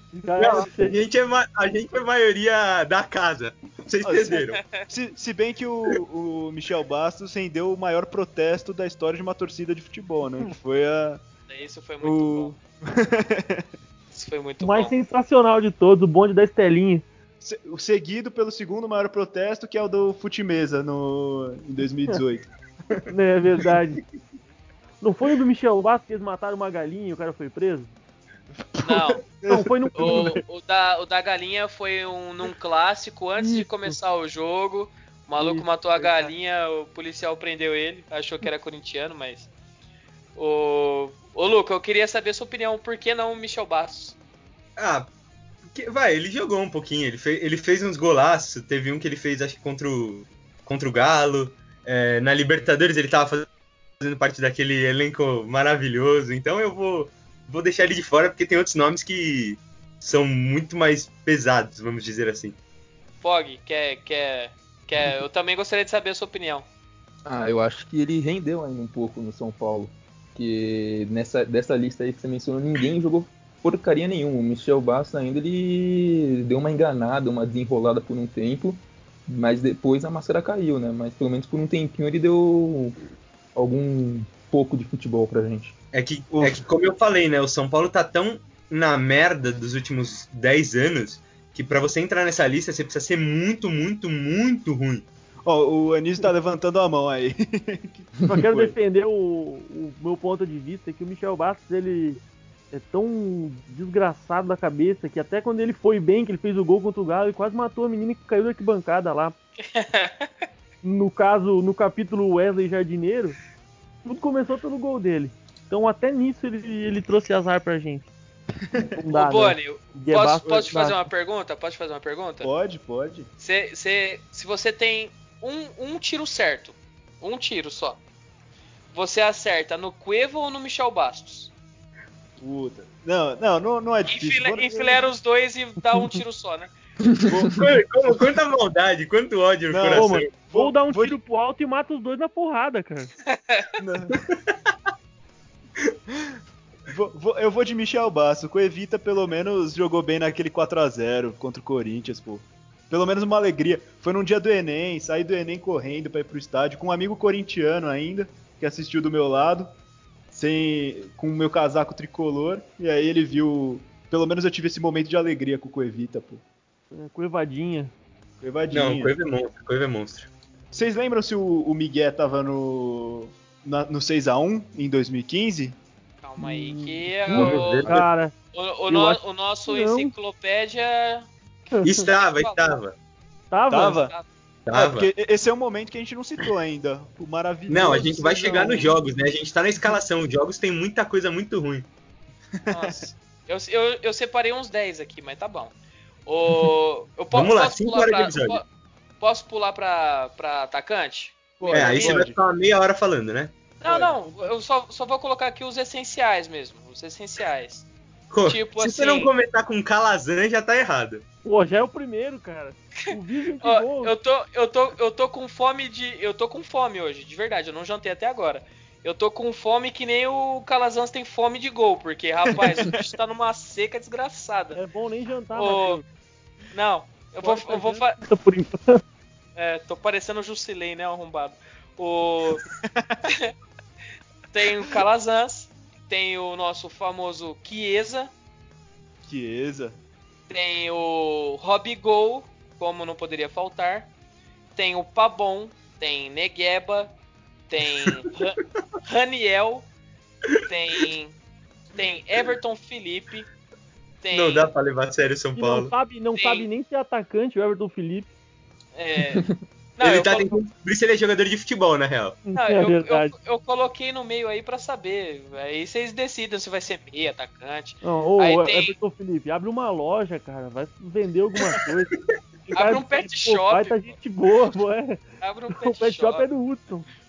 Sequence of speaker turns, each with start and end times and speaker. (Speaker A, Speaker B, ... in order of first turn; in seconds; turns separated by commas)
Speaker A: 0.1-0.9, Speaker B: 0.4-4.6, Speaker C: 4.0-11.2, Speaker D: 4.5-4.8, Speaker D: 11.5-12.6, Speaker C: 12.0-13.7, Speaker D: 14.1-14.9, Speaker A: 14.6-17.0, Speaker C: 17.4-23.1, Speaker A: 23.1-24.0, Speaker A: 25.0-27.9, Speaker C: 28.7-30.4, Speaker D: 28.8-29.2, Speaker A: 29.5-30.4, Speaker D: 30.0-39.5, Speaker A: 33.4-33.9, Speaker A: 35.4-36.3, Speaker D: 40.3-44.2, Speaker B: 44.8-45.1, Speaker B: 45.7-53.5, Speaker B: 54.0-62.5, Speaker D: 63.2-66.7, Speaker E: 67.2-83.0, Speaker E: 83.5-85.7, Speaker B: 85.9-95.0, Speaker C: 86.3-86.6, Speaker C: 95.4-98.7, Speaker A: 98.2-102.2, Speaker A: 102.7-109.3, Speaker D: 109.7-110.3, Speaker A: 110.8-113.4, Speaker A: 114.0-118.1, Speaker A: 118.9-121.0, Speaker D: 119.1-122.5, Speaker C: 122.4-123.3, Speaker D: 123.4-128.0, Speaker D: 128.9-131.5, Speaker C: 132.4-135.1, Speaker D: 134.0-136.7, Speaker C: 137.3-138.2, Speaker B: 137.5-140.3, Speaker C: 139.7-141.2, Speaker A: 139.9-143.1, Speaker D: 143.3-143.7, Speaker C: 143.8-144.2, Speaker C: 146.9-159.7, Speaker C: 160.3-166.4, Speaker A: 166.9-167.9, Speaker C: 168.4-169.1, Speaker B: 168.7-170.3, Speaker C: 170.7-175.8, Speaker D: 176.2-177.9, Speaker A: 176.4-178.3, Speaker B: 177.3-178.1, Speaker D: 178.5-181.3, Speaker A: 178.9-180.1, Speaker A: 181.7-182.0, Speaker B: 181.8-182.9, Speaker D: 181.9-182.8, Speaker A: 183.5-184.1, Speaker C: 183.7-184.1, Speaker D: 183.8-184.2, Speaker B: 184.7-185.1, Speaker C: 184.7-189.0, Speaker B: 187.7-191.9, Speaker C: 192.6-193.0, Speaker D: 192.7-195.7, Speaker D: 196.2-198.6, Speaker B: 197.3-198.6, Speaker D: 199.2-201.6, Speaker C: 201.6-202.4, Speaker A: 201.6-202.2, Speaker B: 201.7-203.5, Speaker D: 203.8-207.9, Speaker C: 203.8-204.2, Speaker A: 204.2-204.5, Speaker B: 208.3-211.2, Speaker D: 208.4-209.3, Speaker A: 211.4-214.1, Speaker D: 213.6-224.8, Speaker A: 224.7-226.0, Speaker D: 225.6-226.0, Speaker D: 226.7-228.2, Speaker A: 227.4-229.0, Speaker D: 229.6-232.7, Speaker C: 232.8-233.2, Speaker D: 233.3-233.5, Speaker D: 234.5-238.3, Speaker C: 239.3-240.0, Speaker D: 240.5-244.1, Speaker D: 244.7-247.1, Speaker D: 247.7-249.9, Speaker D: 250.7-251.3, Speaker D: 251.9-253.5, Speaker D: 254.2-254.7, Speaker B: 254.3-255.9, Speaker A: 255.6-258.3, Speaker D: 256.3-256.7, Speaker D: 258.9-260.6, Speaker B: 260.0-262.4, Speaker A: 262.5-263.3, Speaker D: 262.5-268.9, Speaker A: 268.0-272.1, Speaker A: 272.7-275.2, Speaker D: 272.7-274.1, Speaker D: 275.4-276.5, Speaker A: 275.7-277.1